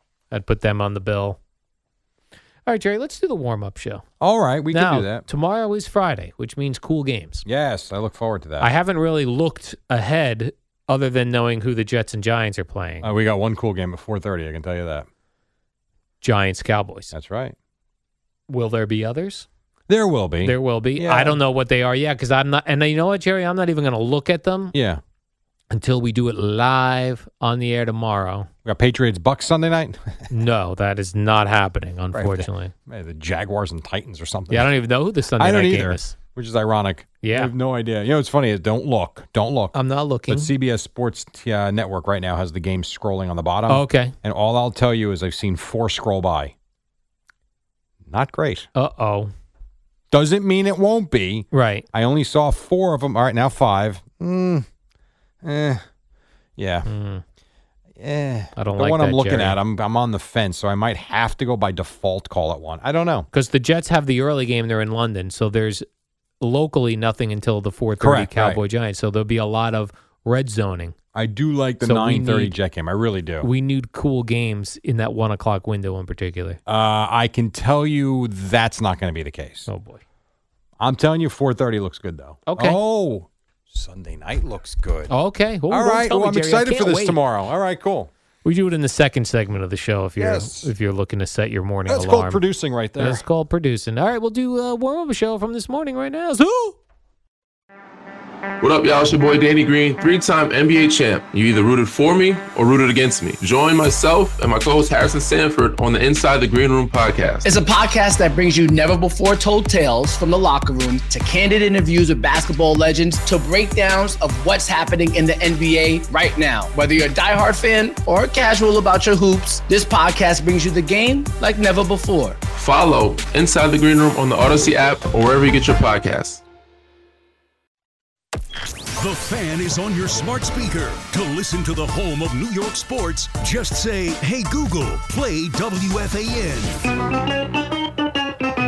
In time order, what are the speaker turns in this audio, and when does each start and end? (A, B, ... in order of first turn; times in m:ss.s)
0:00.3-0:01.4 A
0:02.7-0:04.0 A
0:04.2-0:05.2 B
0:04.7-0:07.5 A
0:07.4-0:08.7 B
0:08.6-0:13.1 A
0:13.0-0:15.1 B
0:16.2-0:17.1 A
0:17.1-0:17.6 B
0:18.5-0:19.5 A
0:19.9-0:21.4 B
0:20.4-0:24.7 A
0:24.7-0:25.0 B
0:25.7-0:28.5 A
0:28.6-0:30.3 B
0:30.3-0:32.7 A
0:32.1-0:34.7 B
0:34.5-0:36.2 A
0:35.4-0:39.7 B
0:37.2-0:37.5 A
0:39.7-0:40.5 A
0:40.3-0:46.6 B
0:43.7-0:44.2 A
0:48.1-0:48.7 B
0:48.8-0:49.3 A
0:50.1-0:54.7 B
0:51.5-0:51.9 A
0:55.4-0:55.8 B
0:56.6-0:56.9 B
0:56.8-0:57.2 A
0:58.0-1:03.3 B
0:58.6-0:59.6 A
1:03.3-1:05.9 A
1:06.4-1:11.0 A
1:08.0-1:08.6 B
1:11.1-1:13.5 B
1:11.8-1:12.6 A
1:13.4-1:16.6 A
1:16.7-1:19.7 B
1:19.7-1:20.0 A
1:20.8-1:25.1 B
1:22.5-1:22.8 A
1:25.1-1:27.2 A
1:25.7-1:28.1 B
1:28.4-1:32.4 A
1:30.2-1:30.7 B
1:31.9-1:33.2 B
1:33.0-1:36.8 A
1:38.6-1:47.5 C
1:47.4-2:02.4 D
2:02.6-2:06.4 C
2:09.0-2:16.8 E